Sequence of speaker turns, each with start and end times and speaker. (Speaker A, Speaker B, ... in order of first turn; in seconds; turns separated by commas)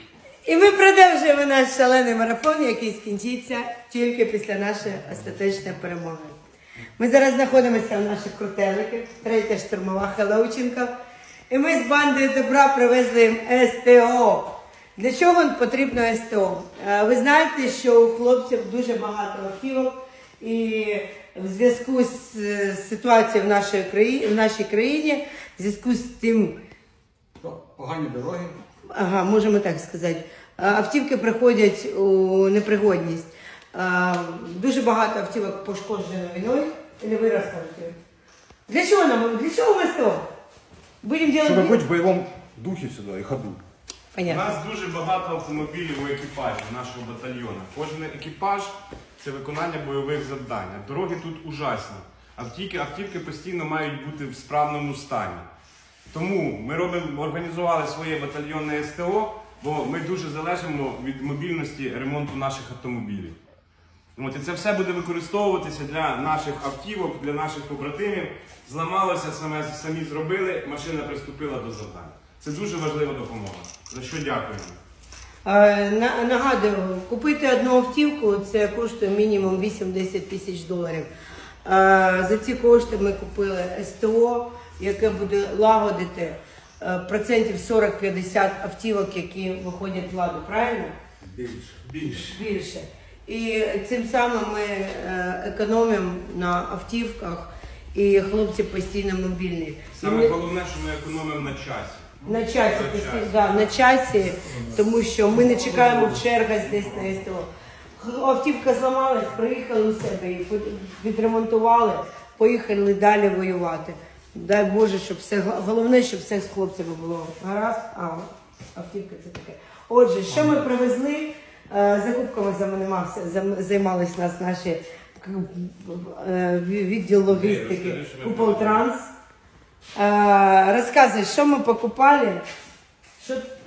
Speaker A: 0.5-6.3, Speaker A: 7.0-10.9, Speaker A: 11.5-26.6, Speaker B: 27.4-28.6, Speaker A: 28.9-37.9, Speaker A: 38.7-40.2, Speaker A: 41.0-41.8, Speaker B: 41.4-43.6, Speaker A: 44.1-44.4, Speaker C: 44.2-55.5, Speaker C: 56.1-63.4, Speaker C: 64.2-74.8, Speaker A: 75.4-81.1, Speaker A: 81.6-90.9, Speaker C: 91.4-92.3, Speaker A: 92.0-100.3, Speaker C: 99.9-103.7, Speaker A: 102.2-129.1, Speaker C: 127.3-128.8, Speaker A: 129.9-132.4, Speaker A: 133.2-133.5